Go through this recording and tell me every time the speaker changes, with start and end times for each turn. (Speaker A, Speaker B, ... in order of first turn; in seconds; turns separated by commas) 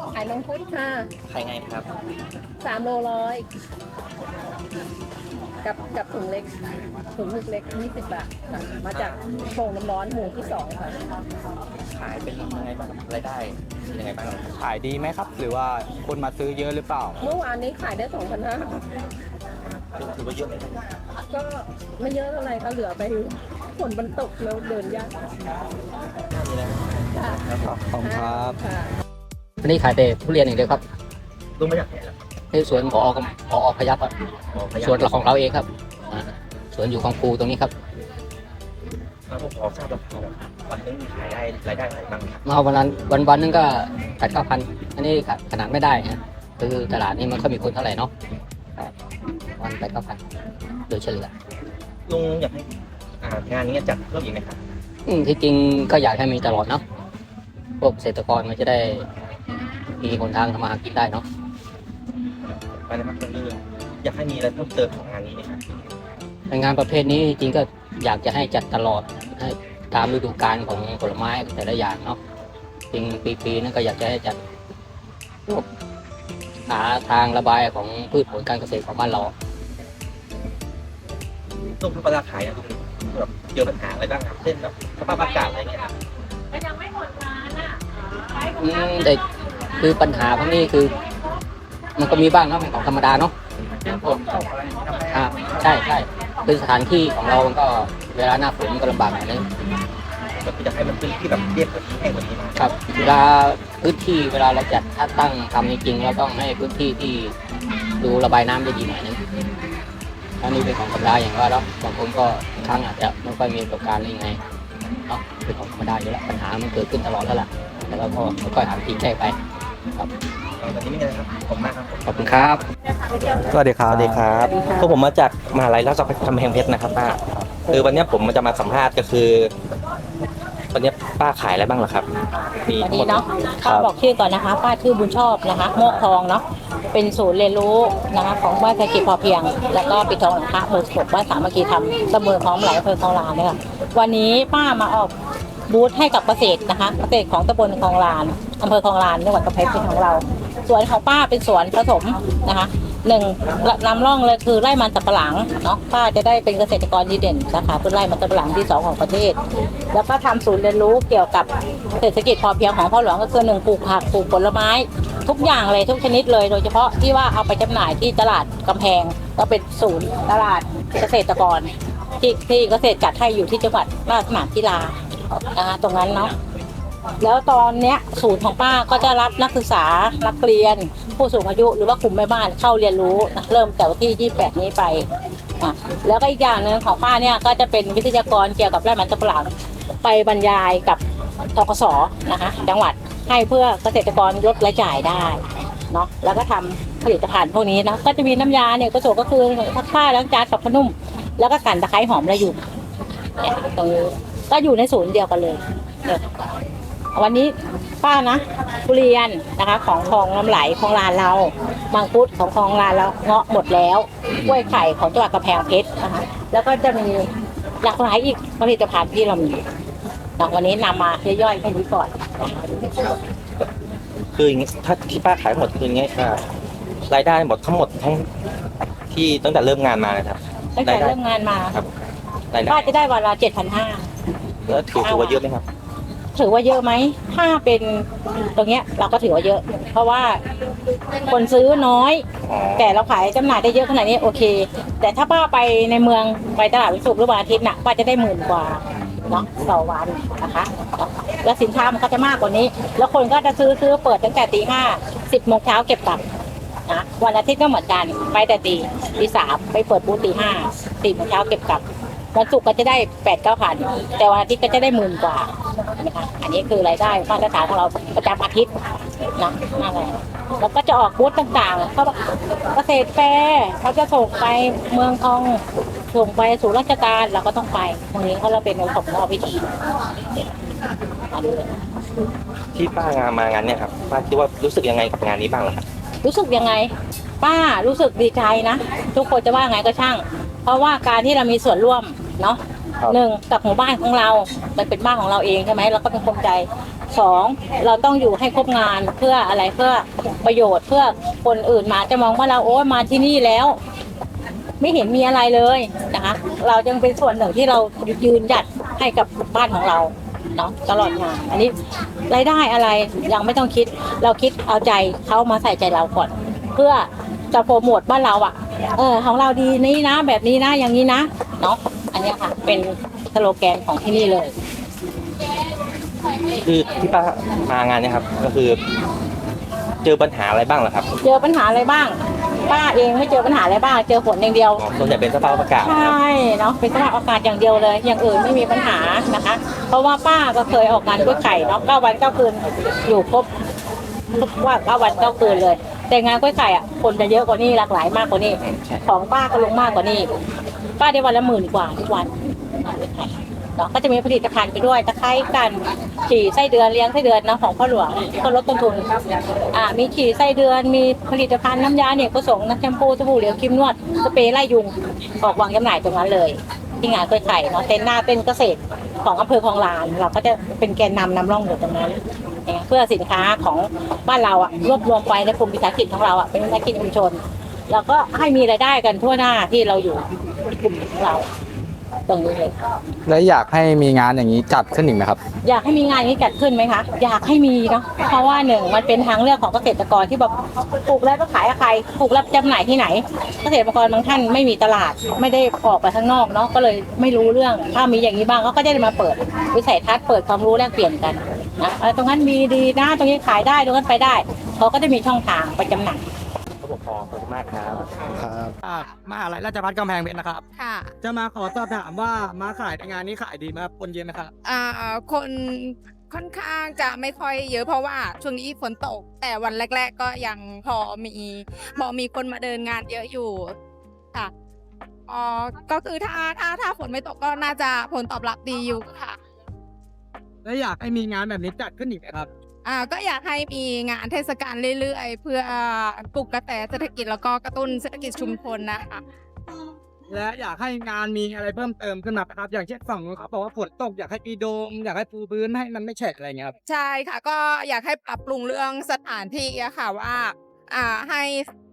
Speaker A: 0.1-1.1, Speaker B: 1.3-1.9, Speaker A: 2.6-3.5, Speaker A: 5.6-6.5, Speaker A: 7.1-10.9, Speaker B: 8.9-9.2, Speaker B: 11.9-14.4, Speaker C: 14.6-17.2, Speaker A: 17.2-18.7, Speaker B: 19.9-20.8, Speaker A: 21.3-25.1, Speaker B: 26.3-27.8, Speaker C: 27.7-28.6, Speaker A: 28.1-28.9, Speaker D: 29.6-30.8, Speaker B: 31.6-32.2, Speaker D: 32.5-34.1, Speaker B: 34.5-35.2, Speaker D: 34.8-37.7, Speaker B: 39.3-42.4, Speaker D: 42.4-48.1, Speaker D: 49.6-50.2, Speaker D: 50.9-51.3, Speaker B: 52.1-52.7, Speaker B: 53.2-54.6, Speaker D: 55.1-56.8, Speaker D: 57.8-59.1, Speaker D: 60.0-61.2, Speaker B: 62.8-65.6, Speaker D: 66.5-72.2, Speaker D: 72.9-74.4, Speaker D: 76.7-79.3, Speaker B: 81.8-85.9, Speaker D: 88.6-89.2, Speaker D: 89.8-90.9, Speaker D: 92.0-93.3, Speaker D: 93.8-94.5, Speaker D: 95.0-99.4, Speaker B: 100.4-102.7, Speaker D: 102.6-107.3, Speaker D: 108.0-109.2, Speaker D: 110.4-114.4, Speaker D: 115.1-119.3, Speaker B: 120.6-122.5, Speaker C: 122.1-122.6, Speaker C: 123.5-124.3, Speaker B: 123.8-129.5, Speaker B: 130.7-132.1, Speaker B: 132.7-133.9, Speaker E: 132.8-145.1, Speaker E: 145.7-159.4, Speaker E: 159.9-174.9, Speaker E: 175.5-176.3, Speaker E: 177.2-185.1, Speaker E: 185.6-189.5, Speaker E: 190.0-191.0, Speaker E: 191.5-202.6, Speaker E: 203.4-206.4, Speaker E: 207.1-217.3, Speaker E: 217.8-219.6, Speaker E: 220.4-222.1, Speaker B: 224.3-226.4, Speaker B: 227.1-228.2, Speaker B: 229.1-231.1, Speaker E: 230.8-231.8, Speaker B: 232.5-232.9, Speaker E: 232.7-234.1, Speaker B: 234.7-235.6, Speaker E: 235.0-235.4, Speaker E: 236.3-240.4, Speaker E: 241.2-242.2, Speaker B: 242.4-243.0, Speaker E: 242.8-256.2, Speaker E: 256.9-268.7, Speaker E: 269.4-279.7, Speaker E: 281.3-281.7, Speaker B: 282.7-285.8, Speaker E: 286.2-303.8, Speaker E: 304.8-311.7, Speaker E: 312.3-324.5, Speaker B: 326.6-328.8, Speaker B: 330.0-331.1, Speaker E: 331.2-332.2, Speaker E: 332.7-334.8, Speaker B: 334.8-336.1, Speaker E: 335.8-343.5, Speaker E: 344.4-350.3, Speaker E: 351.0-352.3, Speaker E: 352.8-359.1, Speaker E: 359.7-381.5, Speaker E: 382.3-382.7, Speaker C: 383.2-385.4, Speaker E: 385.6-406.2, Speaker B: 406.8-408.5, Speaker C: 408.8-410.6, Speaker F: 410.8-411.1, Speaker C: 411.2-414.5, Speaker F: 414.6-423.7, Speaker F: 425.3-429.4, Speaker C: 430.6-432.5, Speaker F: 432.8-439.2, Speaker C: 440.3-446.7, Speaker F: 446.9-451.6